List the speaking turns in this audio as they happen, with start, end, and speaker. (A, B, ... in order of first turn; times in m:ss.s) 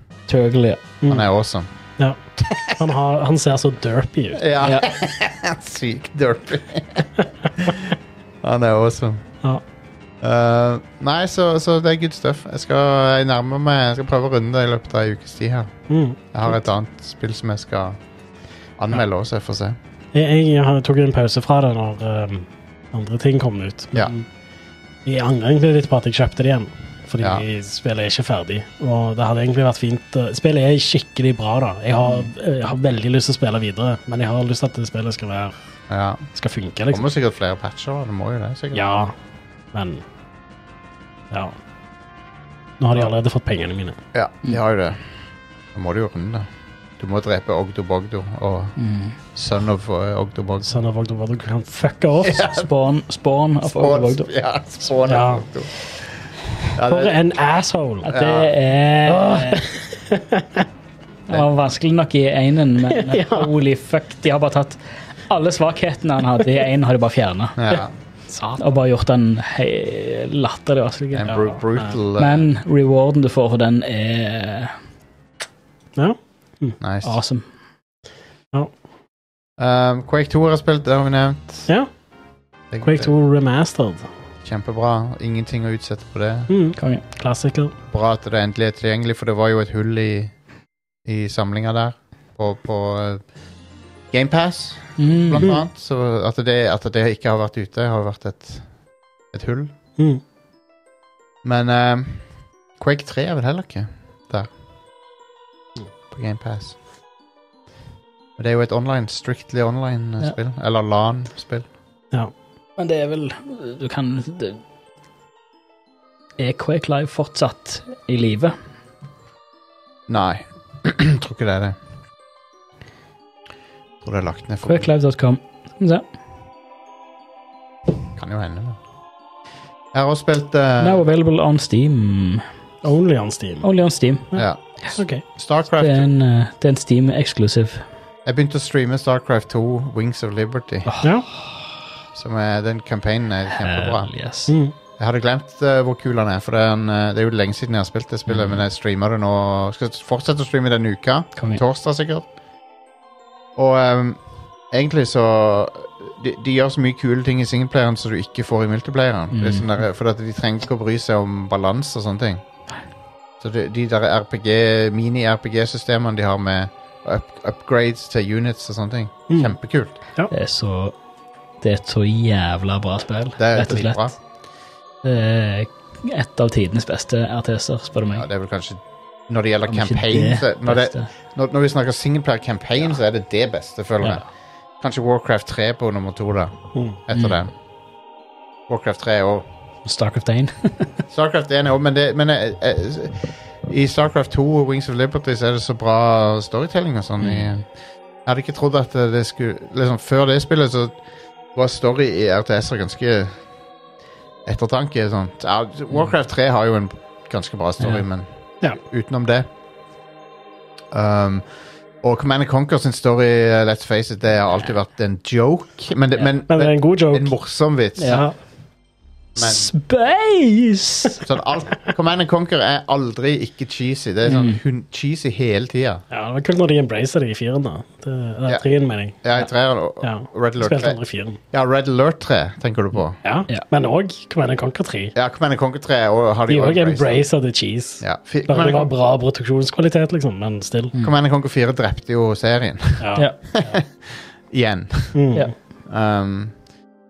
0:00.3-0:00.8 A
0:01.0-0:01.3 B
0:01.1-0:01.7 C
0:02.0-0:04.4 B
0:02.4-0:02.8 C
0:04.3-0:09.2 C
0:10.2-0:15.7 C
0:15.9-0:16.2 B
0:16.3-0:18.0 C
0:18.8-0:19.8 C
0:20.1-0:24.2 B
0:25.0-0:35.6 B
0:35.9-0:36.2 C
0:36.3-0:37.0 B
0:36.9-0:38.9 C
0:38.7-0:39.1 B
0:39.7-0:40.0 B
0:41.3-0:41.6 B
0:42.8-0:44.0 B
0:44.1-0:45.1 C
0:45.7-0:46.5 C
0:47.0-0:48.8 C
0:48.8-0:49.2 A
0:49.3-0:50.7 C
0:50.6-0:52.4 B
0:52.2-0:52.7 C
0:52.4-0:54.3 A
0:53.6-0:55.8 C
0:55.0-0:55.4 B
0:56.7-0:57.2 C
0:56.8-1:00.6 B
0:58.1-0:59.6 A
0:58.1-0:58.5 C
1:01.3-1:07.6 A
1:02.9-1:03.5 B
1:07.6-1:07.9 C
1:07.7-1:08.7 B
1:08.6-1:11.5 A
1:11.1-1:12.4 C
1:11.3-1:11.9 B
1:12.2-1:14.7 A
1:16.0-1:16.8 B
1:16.8-1:17.2 C
1:17.0-1:17.4 A
1:19.6-1:21.7 C
1:22.7-1:23.1 C
1:22.8-1:24.1 B
1:24.4-1:26.5 C
1:26.5-1:27.7 B
1:26.8-1:27.0 A
1:27.9-1:30.3 C
1:31.0-1:33.2 C
1:34.1-1:38.6 C
1:35.0-1:35.5 A
1:39.3-1:39.7 C
1:41.4-1:42.2 C
1:42.8-1:44.5 C
1:46.1-1:46.8 C
1:48.4-1:51.7 C
1:52.8-1:54.6 A
1:56.4-1:58.5 A
2:00.1-2:01.8 C
2:04.0-2:04.9 C
2:04.6-2:06.0 A
2:08.2-2:08.8 C
2:09.9-2:11.0 C
2:10.8-2:12.4 A
2:12.8-2:13.7 B
2:13.6-2:14.3 A
2:14.3-2:15.2 B
2:14.4-2:16.1 C
2:15.8-2:17.8 A
2:18.2-2:20.9 C
2:20.8-2:21.8 A
2:22.1-2:24.1 C
2:23.5-2:24.5 A
2:24.5-2:24.7 B
2:25.0-2:32.2 C
2:28.3-2:28.6 A
2:31.4-2:31.6 A
2:33.6-2:34.2 C
2:34.7-2:42.4 C
2:39.3-2:39.6 A
2:43.4-2:49.9 C
2:49.3-2:49.5 B
2:50.3-2:50.9 A
2:51.6-2:54.1 A
2:53.4-2:54.1 C
2:55.0-2:58.2 A
2:58.1-3:04.2 C
2:59.6-3:01.1 A
3:04.8-3:07.5 C
3:07.1-3:07.4 A
3:08.7-3:09.4 C
3:09.8-3:11.0 A
3:11.1-3:17.6 C
3:17.2-3:17.5 A
3:18.2-3:21.0 C
3:21.5-3:23.3 C
3:24.4-3:28.3 C
3:28.8-3:29.5 C
3:30.9-3:31.4 C
3:32.0-3:38.2 C
3:36.5-3:37.3 B
3:38.0-3:38.2 A
3:38.0-3:38.3 B
3:39.4-3:39.7 C
3:39.4-3:41.2 A
3:41.2-3:46.0 C
3:44.3-3:44.6 A
3:46.1-3:49.2 B
3:49.2-3:51.0 C
3:50.0-3:51.4 B
3:51.5-3:53.2 C
3:53.2-3:55.1 B
3:55.1-3:57.2 C
3:56.5-4:00.9 B
3:58.0-3:58.9 C
4:01.0-4:05.2 C
4:03.0-4:03.7 B
4:05.1-4:05.5 B
4:05.9-4:06.5 C